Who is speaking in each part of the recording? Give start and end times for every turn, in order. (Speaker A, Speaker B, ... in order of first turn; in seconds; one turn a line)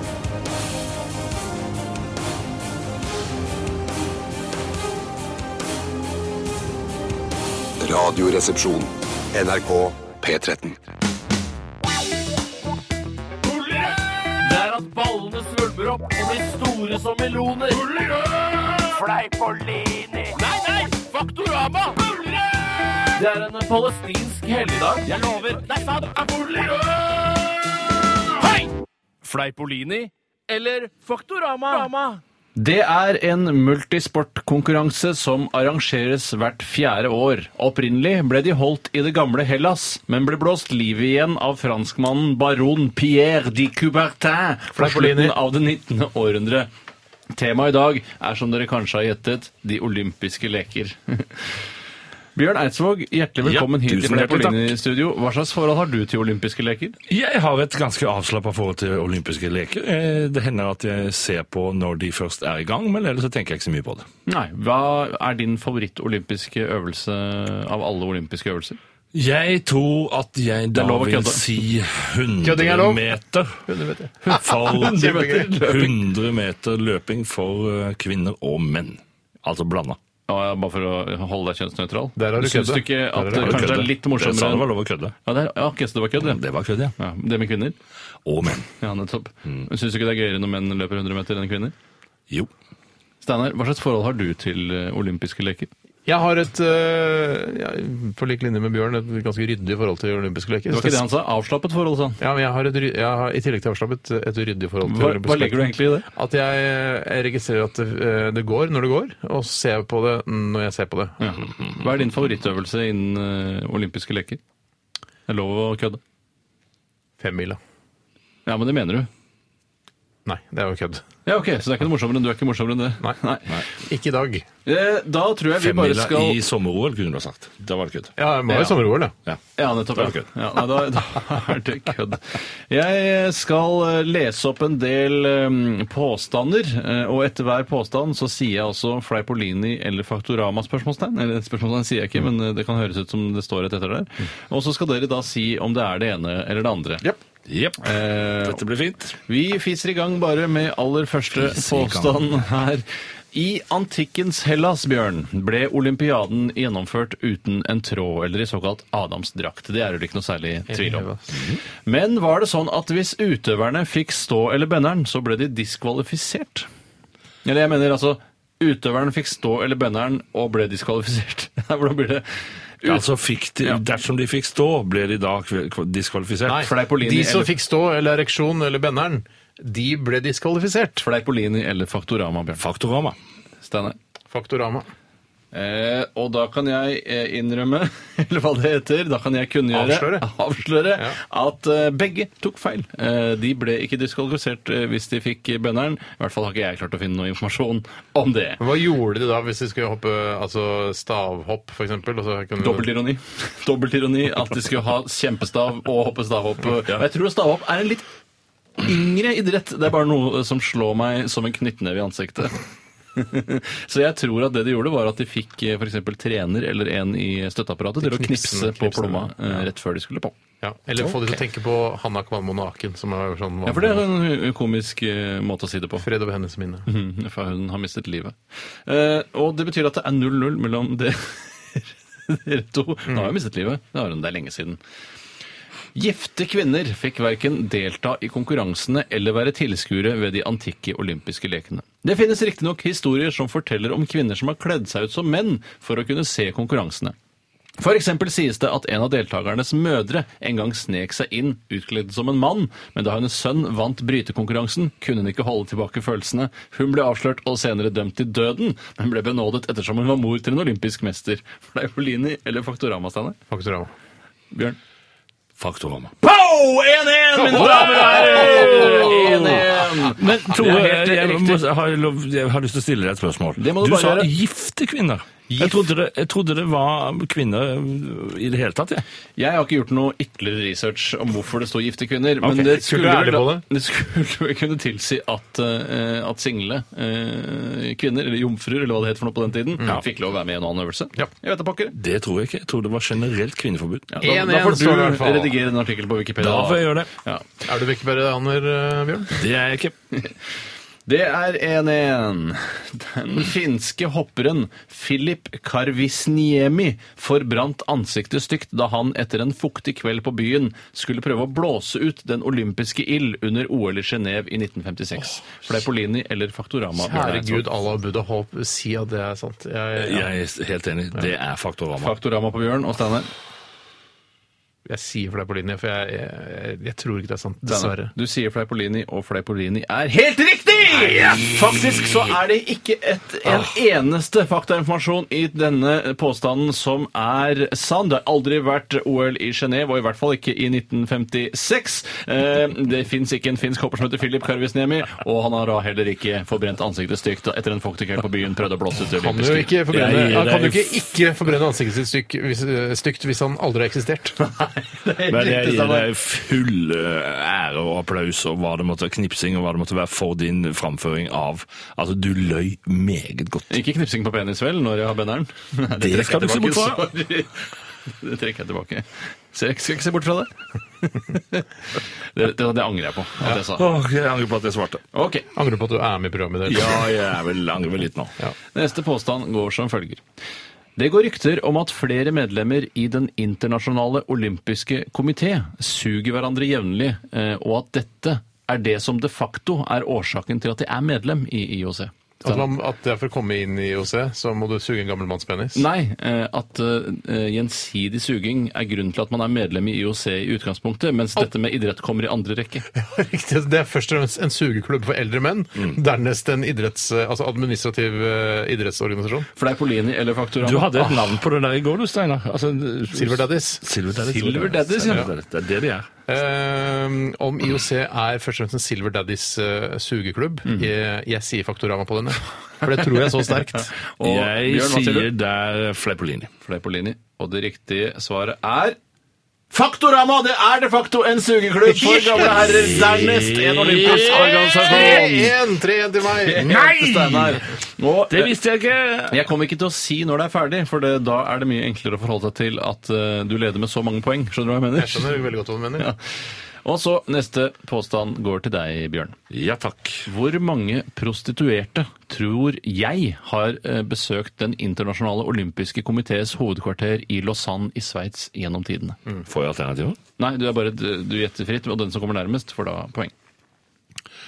Speaker A: 7.8-10.8
Speaker B: 13.4-27.6
Speaker B: 28.4-28.7
Speaker B: 29.2-32.2
Speaker C: 32.5-46.7
Speaker D: 44.8-45.4
Speaker C: 47.3-51.5
Speaker C: 52.3-57.0
Speaker E: 53.4-54.7
Speaker E: 57.1-64.1
Speaker C: 64.3-68.8
Speaker E: 69.1-73.6
Speaker C: 70.7-71.4
Speaker D: 72.4-73.1
Speaker D: 73.7-75.6
Speaker C: 74.2-75.9
Speaker E: 74.3-80.0
Speaker C: 80.3-84.7
Speaker D: 82.2-83.8
Speaker E: 83.3-85.1
Speaker C: 85.2-86.4
Speaker E: 86.2-86.9
Speaker C: 87.0-87.8
Speaker E: 88.2-88.7
Speaker C: 88.8-91.7
Speaker C: 93.2-95.7
Speaker D: 96.0-101.0
Speaker C: 100.7-102.2
Speaker D: 102.2-111.2
Speaker C: 104.8-106.1
Speaker C: 111.2-114.4
Speaker C: 115.3-116.0
Speaker D: 117.2-117.6
Speaker C: 118.5-119.1
Speaker D: 120.2-121.0
Speaker C: 121.2-123.6
Speaker D: 123.8-124.4
Speaker C: 124.7-126.4
Speaker E: 125.5-128.1
Speaker D: 128.2-129.1
Speaker C: 128.5-128.8
Speaker C: 129.6-147.1
Speaker E: 129.9-130.3
Speaker E: 147.4-149.2
Speaker C: 147.8-148.6
Speaker C: 149.3-161.1
Speaker E: 151.3-152.4
Speaker D: 160.7-161.2
Speaker E: 161.3-161.6
Speaker C: 161.8-166.7
Speaker C: 167.4-172.2
Speaker E: 172.8-176.7
Speaker D: 176.5-181.0
Speaker C: 176.6-177.5
Speaker C: 181.0-182.6
Speaker E: 182.6-183.2
Speaker C: 183.6-184.0
Speaker D: 184.3-184.9
Speaker C: 185.5-198.6
Speaker D: 189.7-190.2
Speaker D: 198.6-202.9
Speaker C: 202.6-208.0
Speaker C: 208.8-212.6
Speaker C: 213.2-220.3
Speaker D: 218.0-219.7
Speaker D: 220.6-224.1
Speaker C: 223.7-226.1
Speaker D: 226.0-226.9
Speaker C: 226.9-234.8
Speaker D: 233.1-233.3
Speaker C: 235.9-247.1
Speaker C: 247.8-263.4
Speaker D: 263.5-263.9
Speaker C: 264.5-264.8
Speaker E: 265.6-266.1
Speaker C: 266.2-271.6
Speaker D: 267.4-269.1
Speaker E: 267.5-279.0
Speaker C: 273.6-274.3
Speaker C: 279.4-291.9
Speaker D: 282.5-283.6
Speaker E: 291.9-294.1
Speaker C: 294.1-297.4
Speaker D: 294.2-295.6
Speaker E: 296.4-297.1
Speaker D: 297.6-299.4
Speaker E: 299.4-299.9
Speaker C: 301.1-317.6
Speaker D: 316.9-320.3
Speaker E: 320.0-322.1
Speaker C: 322.0-323.3
Speaker D: 324.9-328.1
Speaker C: 327.6-349.7
Speaker D: 349.2-354.4
Speaker E: 349.4-350.9
Speaker C: 354.4-356.1
Speaker E: 355.2-363.8
Speaker C: 363.7-373.8
Speaker E: 366.0-367.0
Speaker E: 373.7-375.0
Speaker C: 375.1-375.4
Speaker D: 375.5-377.1
Speaker E: 376.6-378.3
Speaker C: 378.7-380.2
Speaker C: 381.0-392.6
Speaker D: 392.4-395.9
Speaker C: 395.7-402.9
Speaker D: 402.9-409.5
Speaker C: 409.6-411.4
Speaker E: 410.6-416.1
Speaker D: 413.1-413.9
Speaker C: 414.1-415.3
Speaker D: 416.3-423.9
Speaker C: 424.0-425.3
Speaker E: 424.2-426.5
Speaker C: 426.6-429.0
Speaker C: 429.7-435.5
Speaker D: 431.9-432.8
Speaker E: 432.4-435.5
Speaker D: 434.1-436.7
Speaker C: 436.4-438.6
Speaker E: 436.6-437.6
Speaker E: 438.3-439.4
Speaker C: 439.3-445.3
Speaker D: 444.9-446.1
Speaker C: 446.8-449.4
Speaker E: 449.5-450.3
Speaker C: 450.2-459.2
Speaker E: 459.5-460.2
Speaker C: 460.4-463.3